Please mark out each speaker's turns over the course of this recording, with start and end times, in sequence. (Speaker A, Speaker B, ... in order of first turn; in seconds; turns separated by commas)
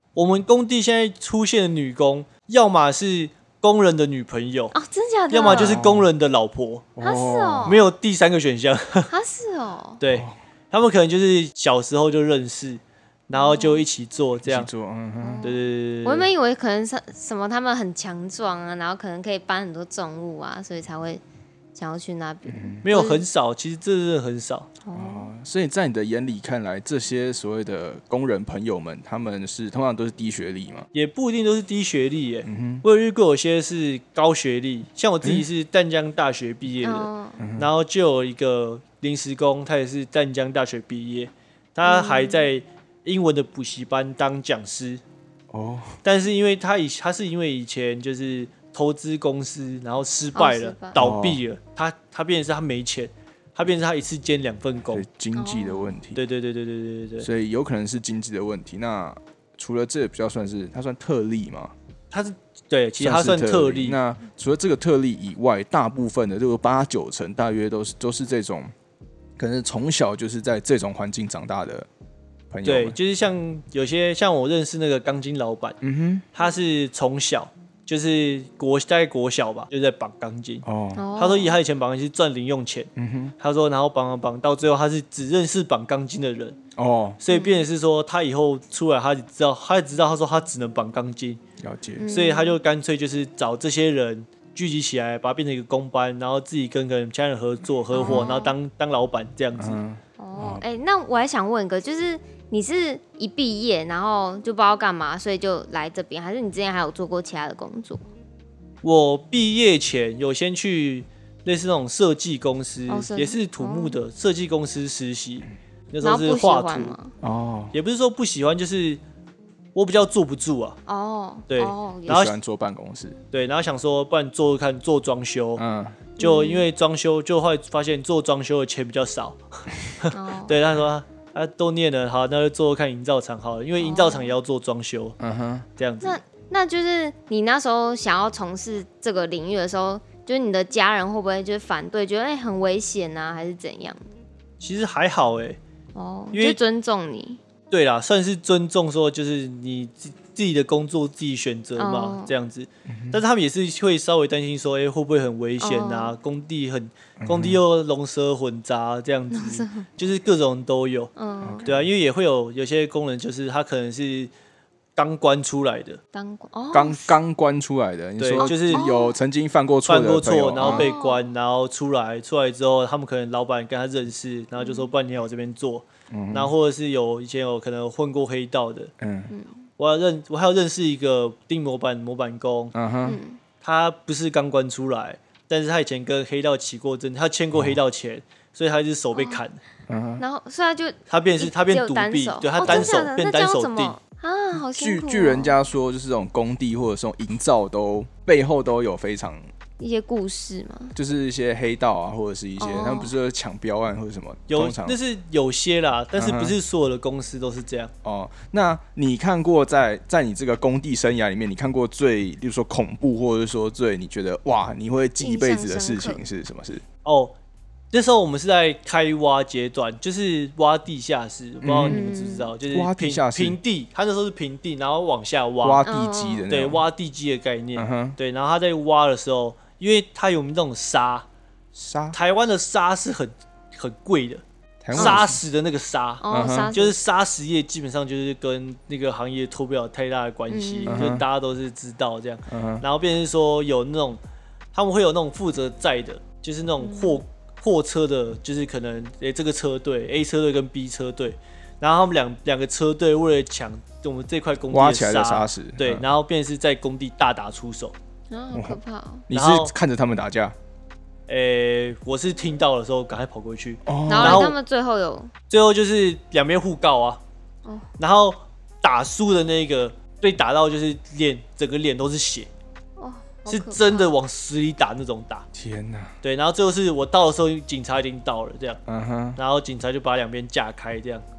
Speaker A: 0.1-4.8, Speaker B: 4.7-5.8, Speaker A: 5.3-6.9, Speaker C: 5.5-6.1, Speaker C: 7.0-7.8, Speaker B: 7.0-7.9, Speaker A: 7.7-9.1, Speaker B: 9.1-10.0, Speaker A: 10.0-14.7, Speaker B: 13.3-13.8, Speaker C: 14.4-15.5, Speaker B: 15.2-21.2, Speaker A: 15.4-16.3, Speaker B: 21.8-23.2, Speaker C: 22.5-22.8, Speaker A: 22.9-24.7, Speaker B: 24.8-25.3, Speaker C: 24.9-30.9, Speaker A: 30.9-45.0, Speaker C: 32.5-32.8, Speaker B: 36.8-37.4, Speaker C: 37.4-37.7, Speaker B: 41.8-42.5, Speaker C: 45.5-46.0, Speaker A: 46.0-55.0, Speaker B: 50.4-51.0, Speaker C: 51.0-51.4, Speaker C: 54.9-56.2, Speaker B: 55.4-55.9, Speaker A: 56.1-57.3, Speaker C: 57.2-61.7, Speaker A: 62.1-64.0, Speaker C: 63.0-68.7, Speaker C: 69.4-71.9, Speaker C: 72.5-73.0, Speaker A: 72.6-75.8, Speaker C: 75.8-76.2, Speaker A: 76.3-80.7, Speaker C: 80.7-81.0, Speaker B: 81.0-81.6, Speaker A: 81.2-86.6, Speaker C: 83.0-83.3, Speaker C: 86.8-87.2, Speaker A: 87.2-91.4, Speaker B: 87.3-87.6, Speaker C: 91.6-92.1, Speaker B: 92.0-92.6, Speaker A: 92.1-99.8, Speaker B: 97.9-98.6, Speaker C: 99.6-100.6, Speaker B: 100.2-108.0, Speaker A: 108.8-117.0, Speaker B: 112.9-114.0, Speaker B: 116.0-117.1, Speaker C: 117.2-117.7, Speaker A: 117.7-119.0, Speaker A: 119.8-120.8, Speaker B: 120.9-122.3, Speaker A: 121.5-122.3, Speaker C: 122.1-123.2, Speaker A: 123.3-125.6, Speaker C: 125.6-126.0, Speaker B: 126.2-126.7, Speaker A: 126.2-135.2, Speaker B: 130.1-130.6, Speaker B: 133.8-134.3, Speaker C: 135.2-135.7, Speaker A: 135.8-136.2, Speaker B: 136.0-144.0, Speaker A: 144.6-145.6, Speaker B: 145.9-147.4, Speaker A: 146.3-146.6, Speaker A: 147.7-161.1, Speaker B: 151.8-152.3, Speaker C: 152.9-153.2, Speaker B: 155.6-156.2, Speaker C: 157.2-157.6, Speaker B: 159.3-159.9, Speaker B: 161.2-161.7, Speaker C: 161.4-161.9, Speaker A: 161.6-164.3, Speaker A: 165.0-166.0, Speaker B: 166.1-167.2, Speaker C: 166.7-170.9, Speaker A: 168.2-168.8, Speaker B: 168.4-169.2, Speaker A: 169.8-178.9, Speaker B: 170.6-171.3, Speaker B: 174.6-174.9, Speaker C: 176.1-176.5, Speaker C: 179.0-179.3, Speaker B: 179.3-179.6, Speaker A: 179.8-182.7, Speaker C: 182.7-183.2, Speaker B: 183.0-183.4, Speaker A: 183.6-189.6, Speaker B: 189.2-189.4, Speaker C: 189.9-190.2, Speaker B: 190.2-195.6, Speaker A: 191.1-194.0, Speaker C: 192.6-193.0, Speaker C: 194.5-199.5, Speaker B: 199.8-200.9, Speaker C: 200.9-205.0, Speaker B: 202.6-203.1, Speaker A: 204.5-207.9, Speaker C: 206.2-206.6, Speaker C: 208.0-216.8, Speaker B: 215.2-216.2, Speaker A: 217.1-217.3, Speaker A: 217.9-225.8, Speaker C: 221.6-222.0, Speaker B: 221.9-222.5, Speaker C: 222.7-223.6, Speaker C: 225.6-226.8, Speaker B: 225.8-226.5, Speaker A: 226.5-231.3, Speaker C: 227.8-228.2, Speaker C: 231.8-232.2, Speaker A: 232.1-244.2, Speaker C: 234.8-235.4, Speaker B: 234.9-235.2, Speaker B: 236.2-237.0, Speaker C: 236.3-236.7, Speaker B: 240.5-241.0, Speaker C: 240.9-241.2, Speaker C: 242.5-242.8, Speaker A: 244.7-257.9, Speaker B: 246.8-247.2, Speaker C: 254.7-256.1, Speaker B: 258.3-259.3, Speaker C: 258.5-260.6, Speaker A: 259.3-259.8, Speaker A: 261.3-264.6, Speaker C: 263.9-264.5, Speaker B: 264.1-265.3, Speaker A: 265.5-267.2, Speaker A: 268.0-272.5, Speaker B: 273.0-274.1, Speaker A: 273.5-275.5, Speaker C: 275.5-276.1, Speaker A: 276.2-278.8, Speaker C: 278.9-279.4, Speaker A: 279.4-281.2